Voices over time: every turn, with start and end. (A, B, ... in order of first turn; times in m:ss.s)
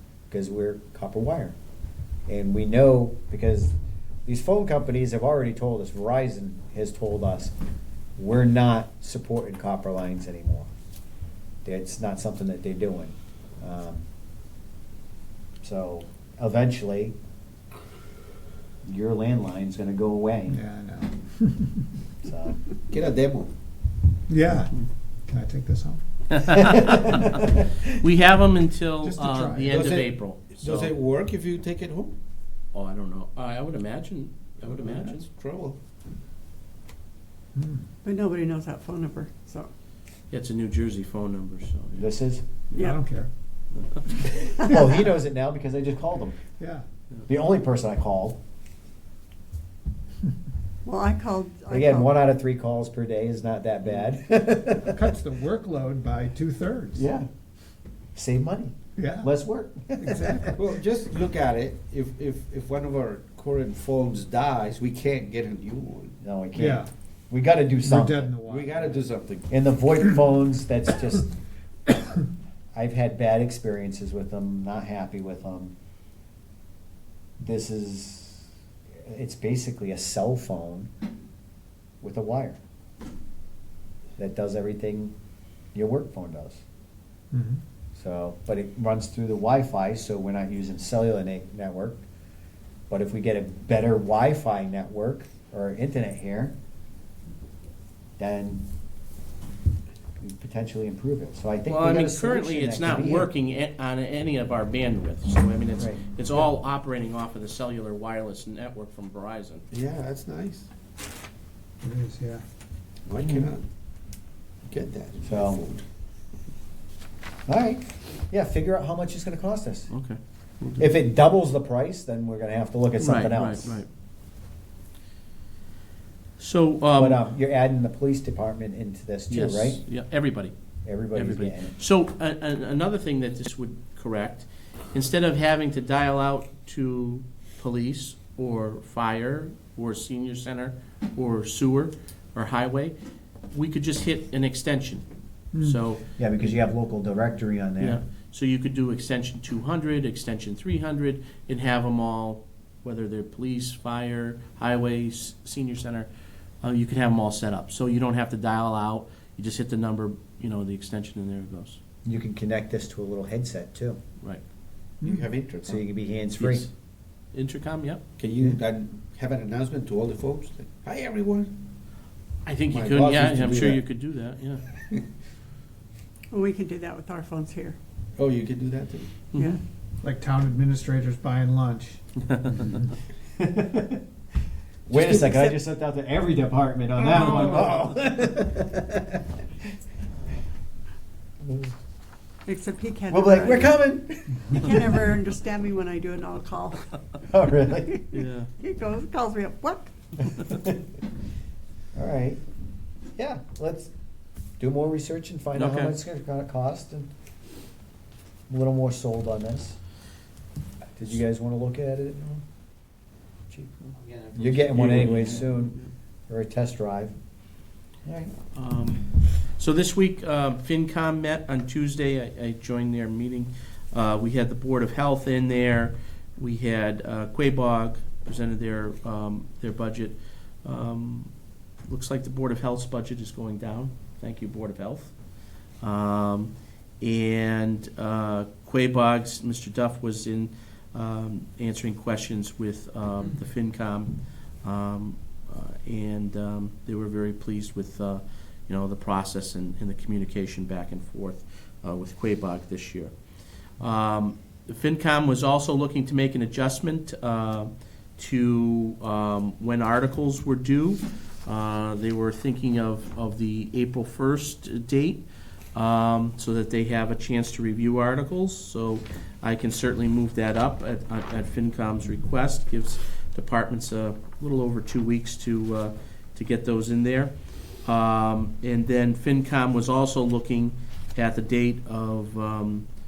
0:00.3-0:01.5 A
0:02.3-0:03.7 A
0:04.2-0:07.5 A
0:08.2-0:10.7 A
0:11.6-0:14.0 A
0:15.6-0:17.1 A
0:18.8-0:20.6 A
0:20.5-0:21.9 B
0:22.2-0:22.6 A
0:22.9-0:23.5 C
0:24.3-0:26.0 B
0:26.3-0:31.0 D
0:26.6-0:27.7 A
0:29.0-0:29.8 B
0:29.7-0:32.2 C
0:32.7-0:35.3 D
0:34.6-0:35.8 C
0:37.5-0:37.9 B
0:38.0-0:39.7 E
0:40.3-0:42.1 D
0:42.0-0:42.4 A
0:42.9-0:43.3 B
0:44.2-0:46.4 A
0:46.6-0:46.8 B
0:47.3-0:48.4 A
0:50.8-0:52.1 E
0:51.7-0:55.0 A
0:54.7-0:57.0 B
0:57.0-0:57.3 A
0:58.1-1:00.6 A
0:59.0-0:59.3 B
1:00.0-1:00.6 B
1:00.6-1:06.2 C
1:06.2-1:08.3 A
1:06.5-1:06.9 B
1:07.8-1:09.0 B
1:08.5-1:09.5 C
1:09.5-1:11.3 A
1:12.7-1:15.7 A
1:17.4-1:18.5 A
1:19.0-1:20.9 A
1:22.0-1:22.6 A
1:24.2-1:25.1 A
1:25.7-1:26.6 A
1:27.3-1:27.6 B
1:27.9-1:32.0 A
1:32.9-1:36.5 A
1:38.2-1:38.6 A
1:40.2-1:43.3 A
1:41.6-1:49.6 D
1:49.7-1:50.7 C
1:51.8-1:52.4 B
1:53.1-1:53.6 C
1:54.6-1:55.8 C
1:55.2-1:55.6 A
1:57.5-1:59.9 A
1:59.9-2:00.2 D
2:00.8-2:03.8 A
2:03.0-2:03.9 D
2:06.4-2:07.2 D
2:07.0-2:09.8 A
2:09.3-2:10.5 D
2:10.8-2:11.8 A
2:11.1-2:22.9 D
2:23.5-2:25.0 D
2:25.6-2:26.0 D
2:26.2-2:28.0 A
2:27.8-2:36.1 D
2:36.6-2:41.8 D
2:42.0-2:44.0 A
2:45.0-2:45.3 B
2:45.0-2:45.8 C
2:45.6-2:46.6 A
2:46.4-2:46.7 D
2:47.3-2:48.0 D
2:48.2-2:51.5 C
2:52.4-2:54.6 D
2:52.7-2:53.8 C
2:56.3-2:57.8 E
2:58.2-2:59.1 C
2:59.3-2:59.6 E
3:00.0-3:02.0 B
3:03.4-3:04.0 A
3:04.9-3:09.3 A
3:04.9-3:05.5 E
3:11.4-3:11.7 A
3:12.4-3:13.8 E
3:13.1-3:15.1 A
3:14.5-3:16.9 E
3:17.3-3:18.0 A
3:18.1-3:18.5 D
3:18.6-3:19.9 E
3:20.3-3:20.8 A
3:21.9-3:22.4 A
3:23.2-3:23.9 A
3:24.6-3:27.1 A
3:25.5-3:26.0 D
3:28.5-3:29.8 A
3:31.0-3:32.4 A
3:34.1-3:35.9 D
3:34.3-3:35.8 A
3:36.3-3:37.1 A
3:38.0-3:38.3 A
3:38.5-3:51.3 D
3:51.8-3:55.1 D
3:55.8-4:13.1 D
4:13.8-4:37.3 D
4:37.8-4:42.8 D